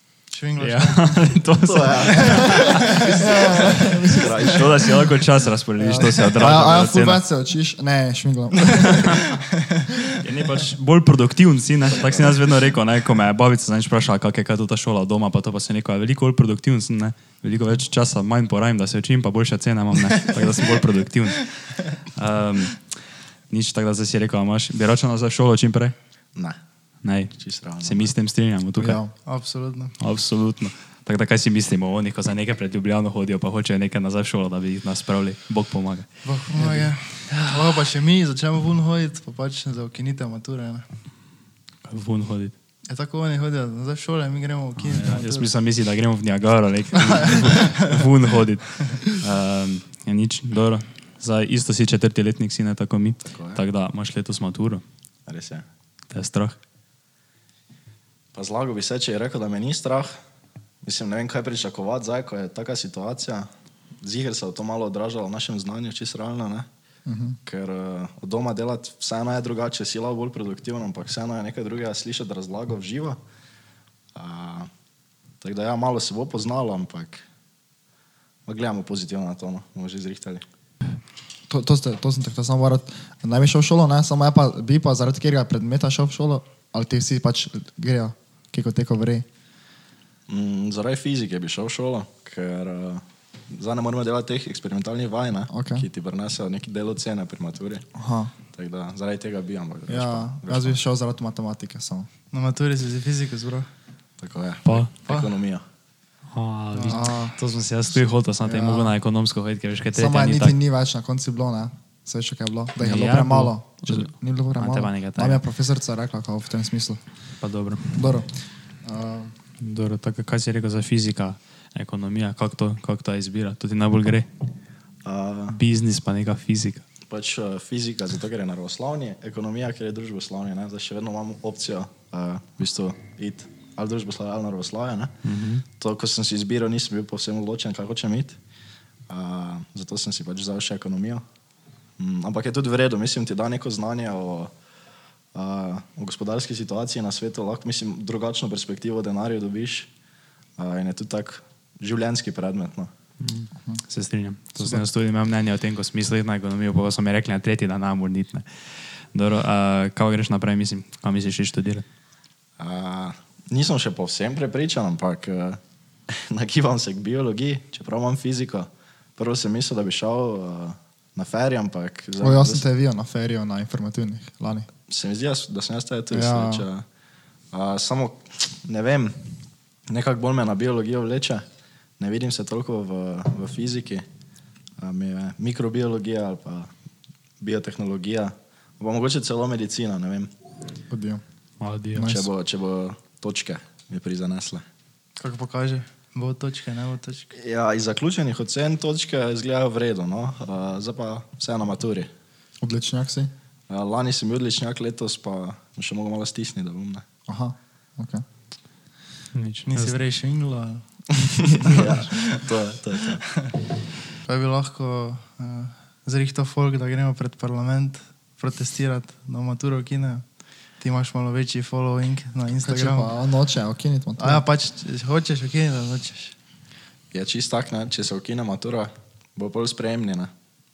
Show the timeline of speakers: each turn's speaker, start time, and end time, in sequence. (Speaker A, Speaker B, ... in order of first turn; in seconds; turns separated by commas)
Speaker A: 0.3-1.2, Speaker B: 0.6-3.0, Speaker C: 1.6-4.9, Speaker A: 1.9-4.5, Speaker D: 2.5-4.5, Speaker B: 4.4-7.2, Speaker D: 5.8-9.3, Speaker B: 8.9-9.2, Speaker B: 10.2-22.8, Speaker C: 11.9-12.5, Speaker A: 20.3-20.6, Speaker B: 23.5-25.9, Speaker B: 27.0-29.0, Speaker C: 27.3-28.1, Speaker D: 28.8-29.1, Speaker A: 29.2-29.9, Speaker B: 30.0-36.9, Speaker A: 36.2-40.9, Speaker B: 37.4-37.6, Speaker B: 41.8-42.5, Speaker A: 42.9-45.5, Speaker B: 44.8-54.8, Speaker A: 47.2-47.9, Speaker C: 53.3-53.6, Speaker C: 55.3-55.6, Speaker B: 56.1-56.5, Speaker C: 58.3-60.2, Speaker C: 60.8-63.5, Speaker C: 64.0-66.7, Speaker D: 67.1-67.4, Speaker C: 67.5-73.2, Speaker C: 74.1-74.7, Speaker C: 75.4-77.2, Speaker C: 78.5-80.4, Speaker D: 81.5-89.2, Speaker C: 90.3-97.8, Speaker D: 95.5-95.8, Speaker D: 97.9-98.3, Speaker C: 98.5-100.8, Speaker D: 99.9-102.1, Speaker A: 102.3-103.7, Speaker C: 104.2-105.6, Speaker B: 106.3-110.5, Speaker A: 106.7-107.0, Speaker D: 106.9-107.3, Speaker D: 108.4-108.9, Speaker D: 109.9-117.0, Speaker B: 112.8-115.4, Speaker B: 117.4-117.9, Speaker D: 117.9-118.3, Speaker D: 118.8-119.3, Speaker B: 119.6-124.3, Speaker C: 125.0-125.6, Speaker B: 125.5-126.8, Speaker C: 127.1-135.1, Speaker B: 135.2-135.6, Speaker C: 135.8-138.4, Speaker C: 139.1-141.2, Speaker C: 142.0-144.5, Speaker C: 145.3-149.9, Speaker C: 150.6-152.9, Speaker B: 153.2-158.4, Speaker B: 159.1-161.8, Speaker C: 162.6-172.6, Speaker D: 172.2-174.7, Speaker C: 174.9-176.8, Speaker D: 176.1-176.7, Speaker C: 177.5-179.2, Speaker C: 179.9-181.4, Speaker C: 182.0-184.0, Speaker C: 184.8-186.7, Speaker C: 187.4-190.3, Speaker D: 190.9-191.2, Speaker B: 191.6-192.1, Speaker D: 191.9-192.3, Speaker C: 192.0-194.6, Speaker A: 195.2-197.3, Speaker C: 197.3-202.1, Speaker D: 202.6-203.3, Speaker C: 203.7-207.0, Speaker D: 207.3-208.2, Speaker B: 209.3-209.9, Speaker A: 209.7-213.5, Speaker C: 211.4-213.2, Speaker A: 214.2-220.2, Speaker A: 220.8-223.2, Speaker D: 222.6-224.4, Speaker A: 224.2-226.3, Speaker C: 227.1-230.3